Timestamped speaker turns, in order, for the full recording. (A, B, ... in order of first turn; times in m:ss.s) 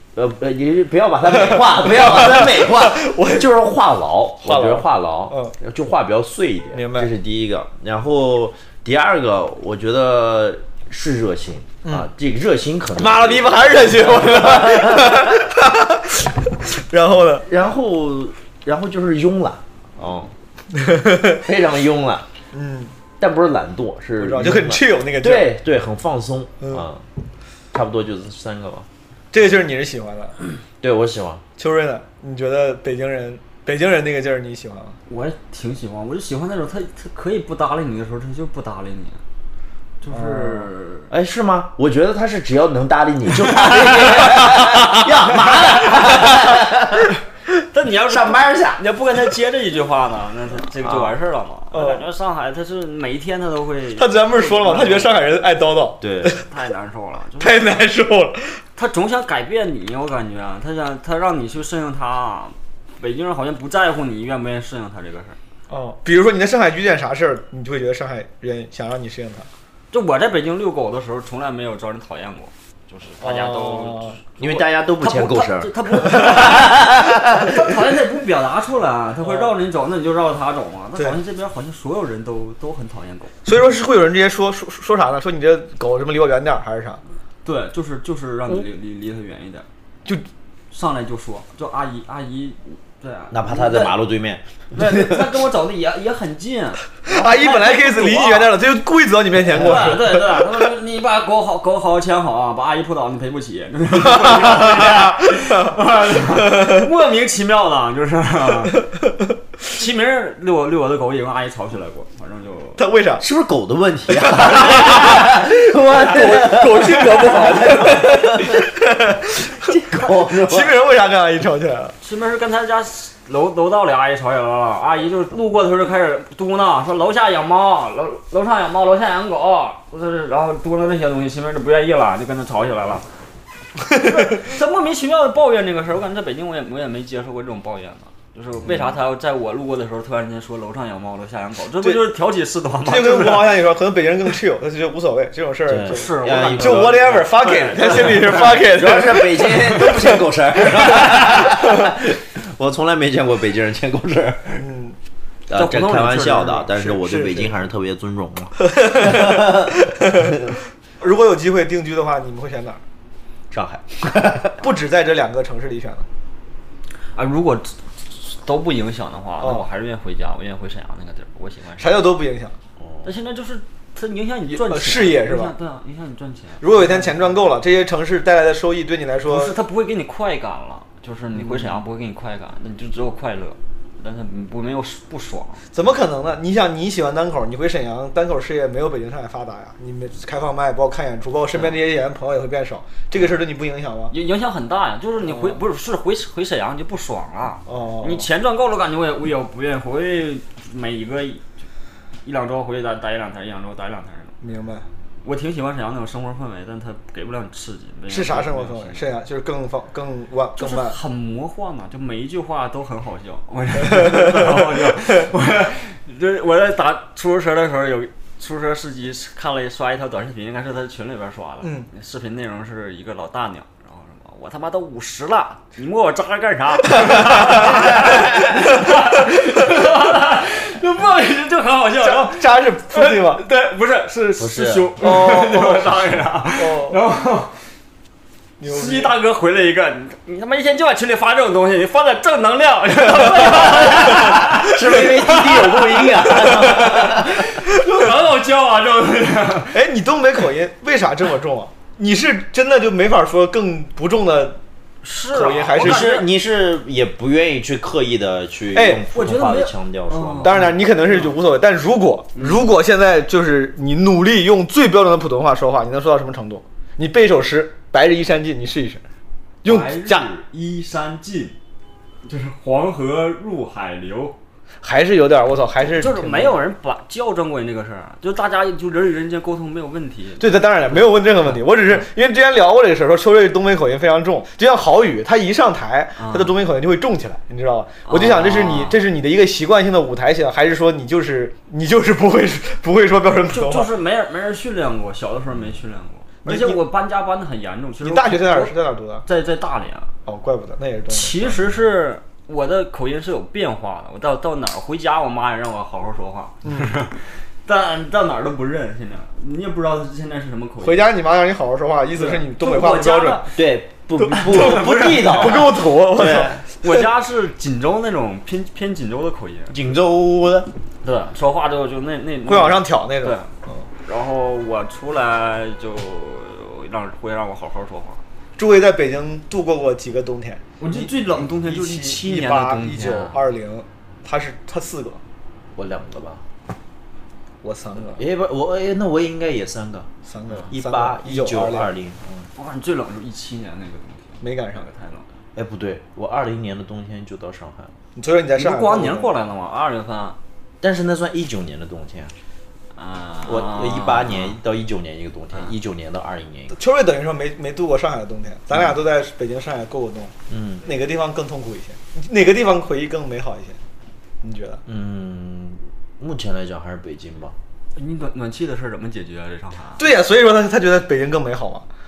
0:00.2-0:15.4 A
0:01.3-0:03.5 B
0:04.4-0:05.5 B
0:06.7-0:07.1 B
0:11.8-0:12.1 B
0:13.0-0:17.5 B
0:17.4-0:20.3 A
0:20.7-0:21.4 B
0:21.4-0:22.3 A
0:22.5-0:23.0 B
0:23.2-0:27.0 A
0:24.2-0:25.6 B
0:27.7-0:28.9 A
0:29.3-0:30.4 B
0:30.8-0:31.4 A
0:31.6-0:35.0 B
0:35.1-0:39.2 C
0:40.0-0:41.1 C
0:40.1-0:40.6 B
0:41.1-0:47.2 A
0:47.7-0:55.1 C
0:48.1-0:48.8 A
0:50.8-0:51.1 A
0:51.7-0:52.0 B
0:54.0-0:56.4 B
0:56.0-0:56.4 A
0:56.5-0:57.8 C
0:57.4-0:58.6 B
0:58.8-1:05.4 C
1:05.7-1:09.5 B
1:09.9-1:23.3 C
1:13.2-1:14.2 B
1:14.4-1:17.6 A
1:19.2-1:19.5 B
1:23.4-1:27.0 B
1:27.4-1:29.7 C
1:30.7-1:33.9 C
1:33.3-1:35.3 A
1:34.7-1:38.5 C
1:37.0-1:40.2 B
1:39.5-1:48.9 C
1:44.0-1:46.9 B
1:49.7-1:52.8 C
1:52.8-1:53.2 B
1:53.2-1:58.7 A
1:54.1-2:01.9 B
1:59.4-2:00.8 A
2:02.0-2:13.0 C
2:13.8-2:23.5 C
2:22.8-2:30.2 B
2:25.7-2:27.0 A
2:25.9-2:28.7 C
2:28.4-2:34.7 A
2:30.8-2:31.9 B
2:34.6-2:35.0 B
2:35.5-2:40.6 A
2:35.6-2:36.7 C
2:36.8-2:37.5 B
2:38.6-2:40.3 B
2:41.0-2:42.8 B
2:43.5-2:44.6 A
2:44.6-2:46.1 B
2:47.2-2:52.0 C
2:49.4-2:49.7 B
2:51.8-2:52.6 B
2:52.8-2:53.1 A
2:53.0-2:57.3 C
2:54.5-2:55.5 B
2:56.6-2:59.6 B
2:59.3-3:05.6 C
3:01.4-3:01.8 B
3:05.7-3:14.1 B
3:14.1-3:21.5 C
3:15.2-3:15.6 B
3:17.7-3:18.3 B
3:22.2-3:24.3 C
3:24.4-3:24.9 B
3:25.2-3:29.1 C
3:28.1-3:31.0 B
3:30.6-3:57.5 C
3:33.9-3:34.5 B
3:46.9-3:47.8 B
3:52.0-3:53.4 B
3:54.4-3:54.9 A
3:55.0-3:55.9 B
3:56.5-3:57.0 B
3:58.6-3:59.1 B
3:58.6-4:06.1 C
4:03.2-4:03.7 B
4:03.5-4:07.4 A
4:06.8-4:09.8 C
4:09.7-4:14.6 B
4:15.0-4:16.3 C
4:15.3-4:16.2 B
4:15.8-4:20.6 A
4:18.7-4:19.0 B
4:19.1-4:21.3 C
4:20.4-4:29.0 B
4:22.4-4:22.6 C
4:29.6-4:30.3 B
4:29.6-4:31.6 C
4:32.2-4:34.4 C
4:34.8-4:36.6 B
4:35.9-4:42.0 C
4:40.4-4:53.9 B
4:46.2-4:46.6 C
4:48.1-4:49.0 C
4:53.5-4:58.7 C
4:56.4-4:56.8 B
4:58.0-4:59.2 B
4:59.2-5:00.1 C
5:00.3-5:01.6 B
5:01.1-5:11.0 C
5:06.6-5:06.9 B
5:10.8-5:13.5 B
5:12.1-5:13.5 C
5:13.6-5:16.6 A
5:14.2-5:16.6 B
5:14.4-5:15.6 C
5:16.8-5:19.8 C
5:19.7-5:20.7 A
5:21.0-5:23.5 C
5:22.5-5:23.8 B
5:24.0-5:28.2 C
5:28.6-5:35.2 B
5:30.8-5:33.4 C
5:35.8-5:36.4 A
5:37.6-5:38.2 B
5:38.2-5:40.1 A
5:40.3-5:41.9 B
5:40.7-5:42.5 A
5:42.6-5:45.3 C
5:44.4-5:44.9 B
5:45.6-5:47.9 A
5:48.2-5:49.3 B
5:48.6-5:50.4 C
5:50.8-5:52.3 A
5:53.0-5:54.6 C
5:53.5-5:56.8 A
5:56.7-6:03.8 B
6:00.5-6:00.8 A
6:04.4-6:04.8 B
6:04.9-6:07.6 A
6:08.0-6:10.1 C
6:10.0-6:11.9 B